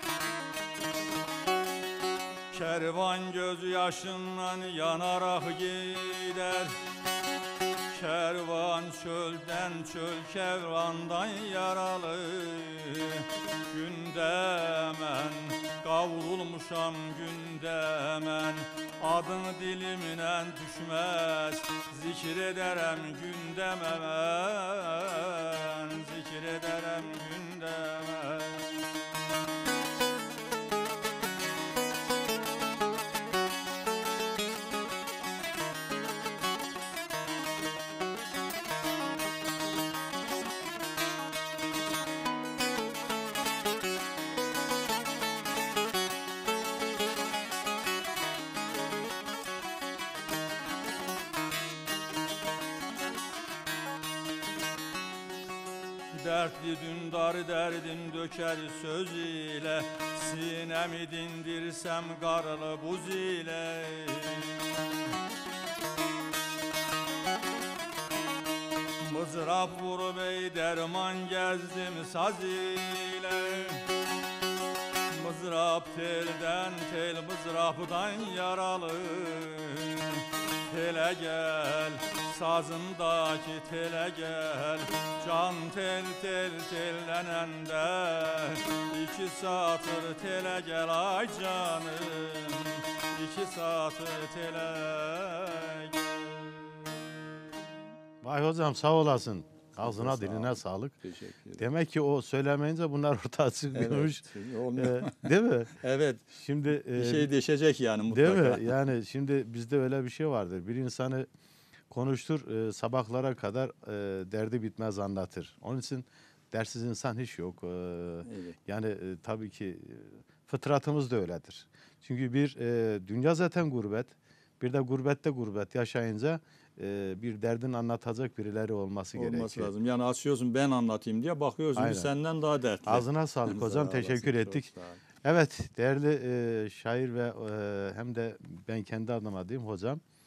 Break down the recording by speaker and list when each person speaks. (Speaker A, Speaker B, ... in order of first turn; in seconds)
Speaker A: 2.5-6.8, 7.9-28.7, 56.1-64.7, 69.0-73.8, 75.1-96.4
Speaker B: 98.2-101.0, 101.6-105.7, 106.3-107.3, 108.1-111.3, 111.9-129.7, 131.8-132.1, 132.9-134.7, 135.2-140.0
Speaker C: 99.8-101.7, 103.8-105.3, 105.8-106.3, 107.0-108.7, 118.2-118.6, 129.2-135.0